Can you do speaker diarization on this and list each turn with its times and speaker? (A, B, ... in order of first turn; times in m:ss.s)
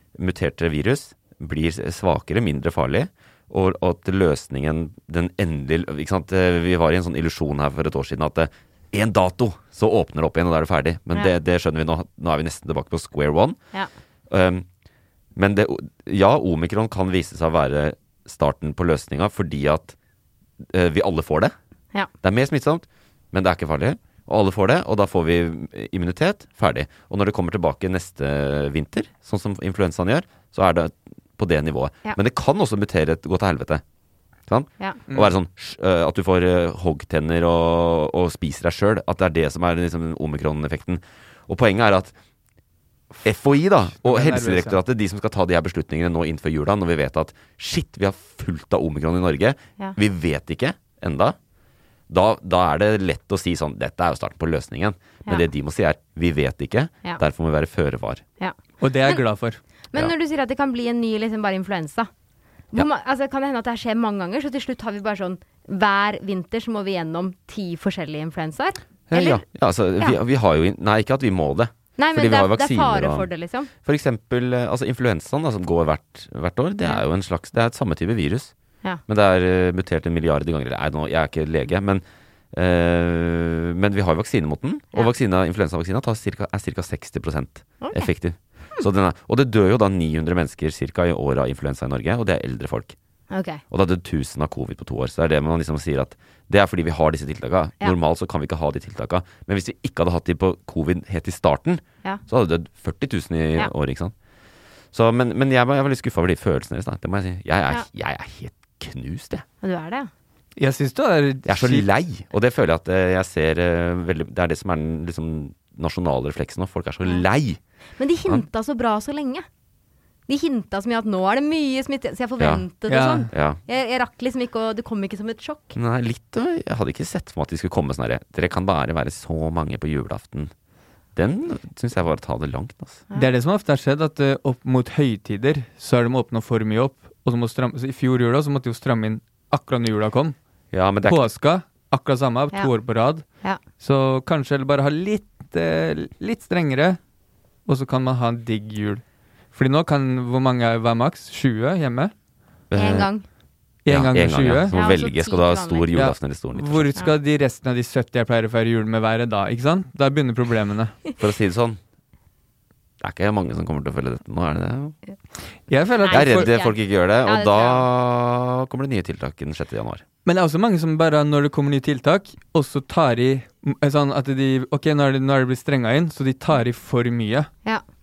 0:00.2-0:13.6 A
0:14.3-0:14.6 A
0:15.3-0:20.0 A
0:20.7-0:21.5 A
0:22.2-0:33.8 A
0:34.5-0:42.1 A
0:43.2-0:51.4 A
0:44.0-0:44.8 B
0:52.1-0:58.2 A
0:58.4-0:59.2 C
0:58.8-0:59.6 B
0:59.9-1:02.1 C
1:02.7-1:09.4 C
1:09.1-1:13.3 A
1:12.0-1:13.7 C
1:13.8-1:18.5 A
1:19.0-1:32.9 A
1:27.8-1:28.1 C
1:33.3-1:33.6 C
1:33.7-1:44.1 A
1:44.9-1:49.4 A
1:49.6-1:50.1 C
1:50.6-1:51.9 B
1:51.4-1:57.6 A
1:58.0-1:59.4 C
2:00.3-2:05.8 C
2:02.4-2:02.6 A
2:02.9-2:03.3 B
2:03.3-2:03.6 A
2:05.7-2:10.5 A
2:11.2-2:13.0 A
2:13.1-2:20.4 B
2:20.7-2:21.3 A
2:21.0-2:23.2 B
2:23.8-2:27.0 B
2:27.6-2:29.0 B
2:29.5-2:32.1 B
2:32.7-2:33.1 A
2:32.7-2:33.2 C
2:33.8-2:34.7 B
2:33.9-2:37.0 A
2:34.7-2:35.9 C
2:35.9-2:41.0 B
2:41.2-2:41.8 A
2:43.0-2:45.0 A
2:45.7-2:46.5 B
2:46.0-2:47.9 C
2:46.1-2:50.0 A
2:50.2-2:57.5 B